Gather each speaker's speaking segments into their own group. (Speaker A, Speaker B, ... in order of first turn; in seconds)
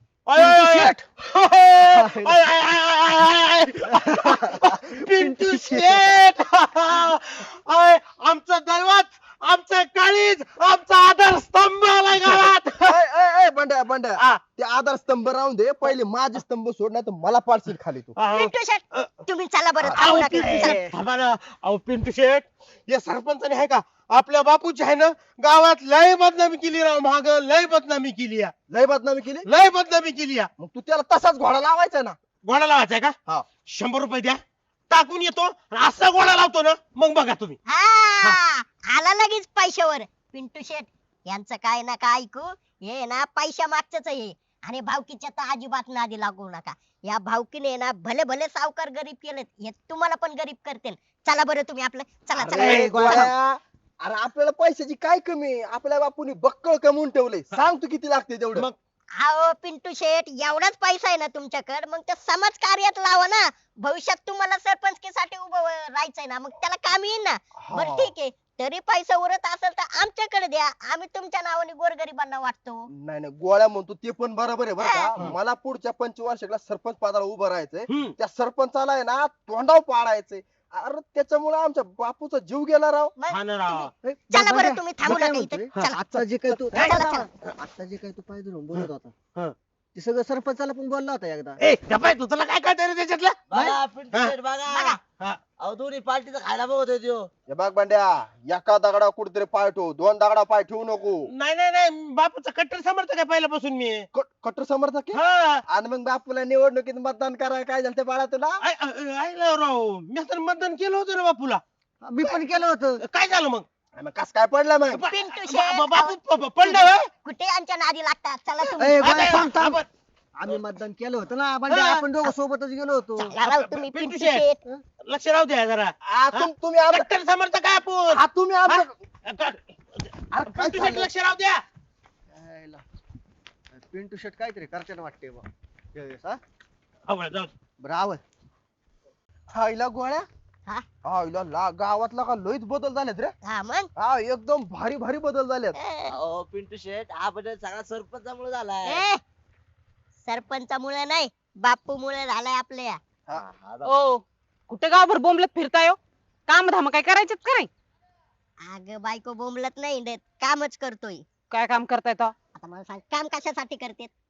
Speaker A: 0.3-12.9, 18.2-19.1, 20.0-28.5, 29.5-30.5, 32.4-37.6, 52.6-53.0, 77.9-78.2, 83.3-83.9, 91.6-93.5, 101.3-104.1, 105.1-105.6, 108.6-111.6, 113.0-113.7, 114.9-117.0, 119.1-119.9, 121.7-122.1, 123.5-124.5, 125.0-131.6, 137.1-137.5
Speaker B: 0.4-1.0, 1.9-2.4, 3.9-6.2, 12.8-18.1, 28.7-29.5, 30.6-32.2, 52.4-58.7, 67.6-68.1, 72.9-83.1, 85.0-87.2, 97.5-101.3, 104.1-108.6, 112.2-112.4, 114.0-115.0, 126.0-127.1, 128.1-129.0, 130.3-131.1, 132.3-132.8, 133.8-135.4, 136.0-136.4, 137.8-138.2, 139.5-140.3, 141.1-143.3, 144.0-145.8
Speaker C: 18.3-20.9, 37.7-53.3, 59.2-72.9, 74.8-75.1, 83.2-86.0, 86.8-87.3, 94.7-95.0, 115.1-119.2, 123.2-124.6, 143.5-143.9, 145.8-146.1, 148.8-149.2, 150.3-153.0, 158.6-161.2, 162.6-164.1
Speaker D: 84.3-91.6, 112.0-113.0, 118.8-119.8, 120.4-123.3
Speaker E: 93.5-95.0, 95.6-97.3, 146.1-149.0, 153.3-153.9
Speaker F: 153.8-157.7, 161.5-162.3